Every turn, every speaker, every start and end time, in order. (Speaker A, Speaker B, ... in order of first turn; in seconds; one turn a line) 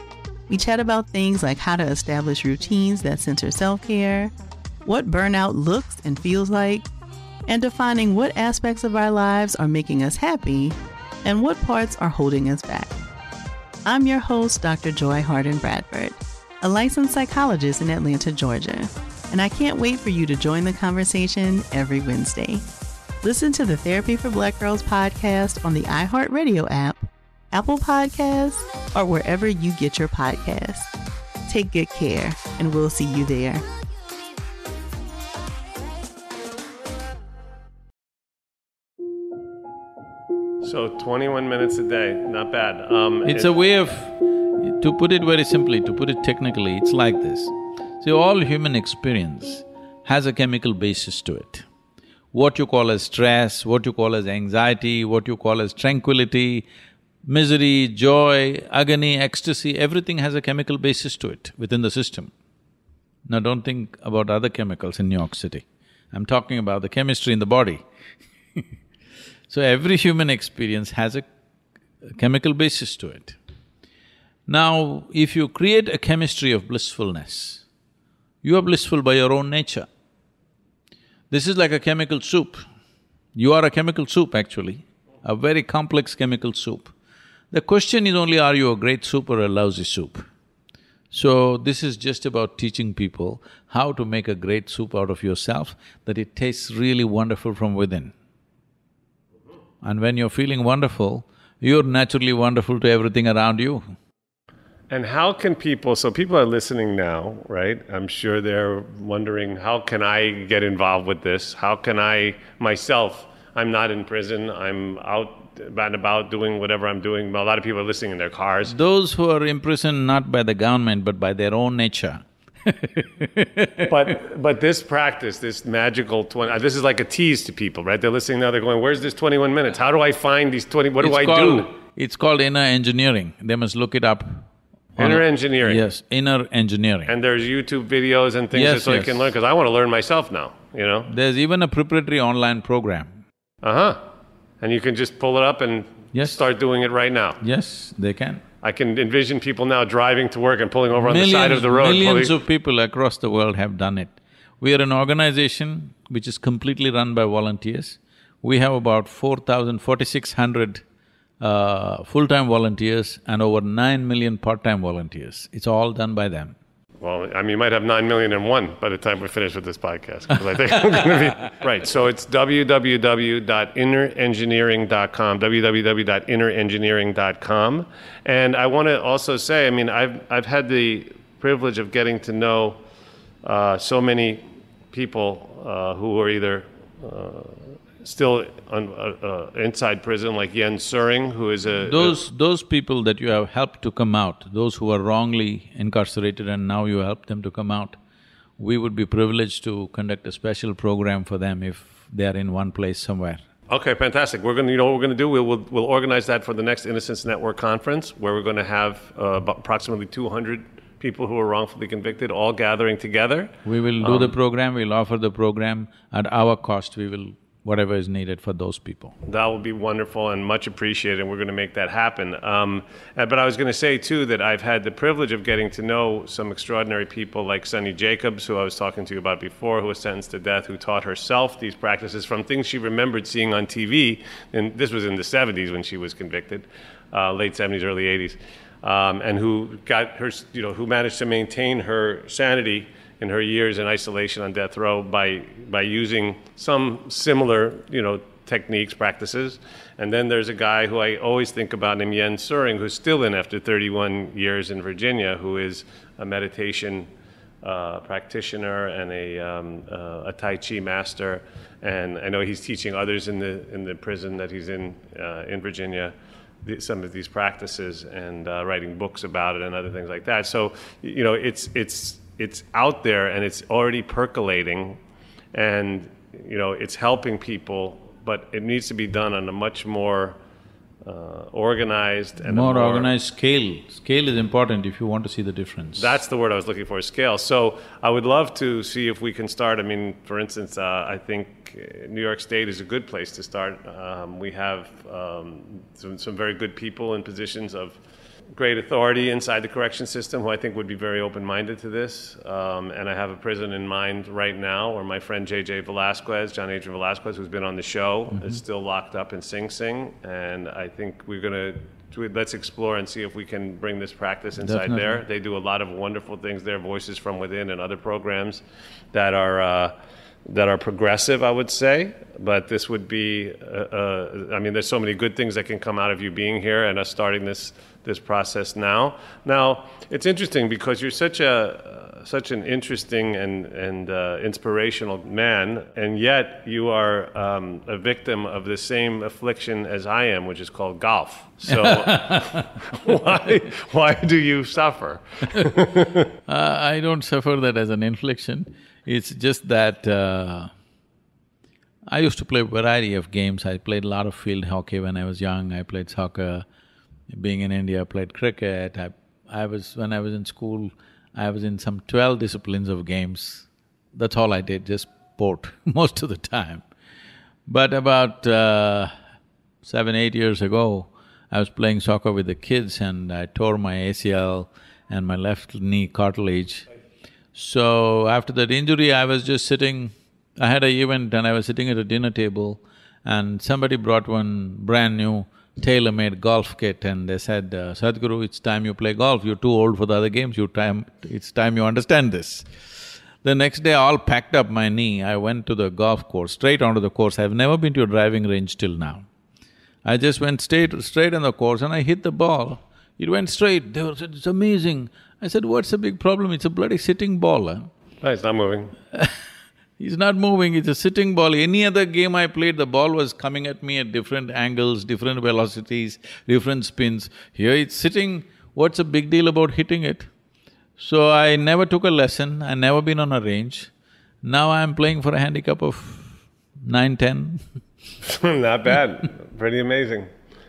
Speaker A: 0.5-4.3
Speaker A: 4.8-6.9
Speaker A: 7.5-12.9
Speaker A: 13.8-22.6
Speaker A: 23.2-30.9
Speaker A: 31.5-33.6
Speaker B: 40.6-43.5
Speaker C: 43.2-51.6
Speaker C: 52.3-56.6
Speaker C: 57.2-62.3
Speaker C: 63.3-67.8
Speaker C: 69.5-71.2
Speaker C: 72.1-73.3
Speaker C: 74.5-77.6
Speaker C: 78.4-79.9
Speaker C: 81.3-82.6
Speaker C: 83.3-86.9
Speaker C: 87.5-90.3
Speaker C: 91.1-98.1
Speaker C: 99.8-103.9
Speaker B: 104.9-118.7
Speaker C: 118.7-124.1
Speaker B: 123.9-131.7
Speaker C: 131.0-137.1
Speaker B: 135.0-135.8
Speaker B: 137.1-141.1
Speaker C: 138.5-139.3
Speaker C: 141.1-143.2
Speaker B: 143.6-144.0
Speaker B: 144.6-147.4
Speaker C: 147.4-148.4
Speaker B: 148.6-152.3
Speaker C: 150.9-160.8
Speaker C: 161.4-166.5
Speaker B: 167.0-182.8
Speaker B: 183.4-192.2
Speaker C: 191.8-197.9
Speaker C: 198.6-203.4
Speaker B: 203.7-214.3
Speaker C: 213.6-219.2
Speaker B: 219.2-257.1
Speaker B: 257.6-275.0
Speaker B: 275.5-280.4
Speaker B: 281.0-283.1
Speaker C: 282.4-286.1
Speaker B: 286.0-298.0
Speaker B: 298.6-319.9
Speaker C: 308.3-308.6
Speaker C: 314.6-315.2
Speaker B: 320.4-346.3
Speaker C: 341.6-343.2
Speaker C: 346.5-350.7
Speaker C: 352.1-356.6
Speaker C: 357.3-366.8
Speaker C: 367.7-369.1
Speaker C: 369.8-376.9
Speaker C: 377.5-392.7
Speaker C: 393.4-399.2
Speaker C: 400.0-407.9
Speaker B: 408.2-408.9
Speaker C: 410.0-420.3
Speaker C: 421.0-423.9
Speaker C: 424.4-427.6
Speaker B: 428.2-430.3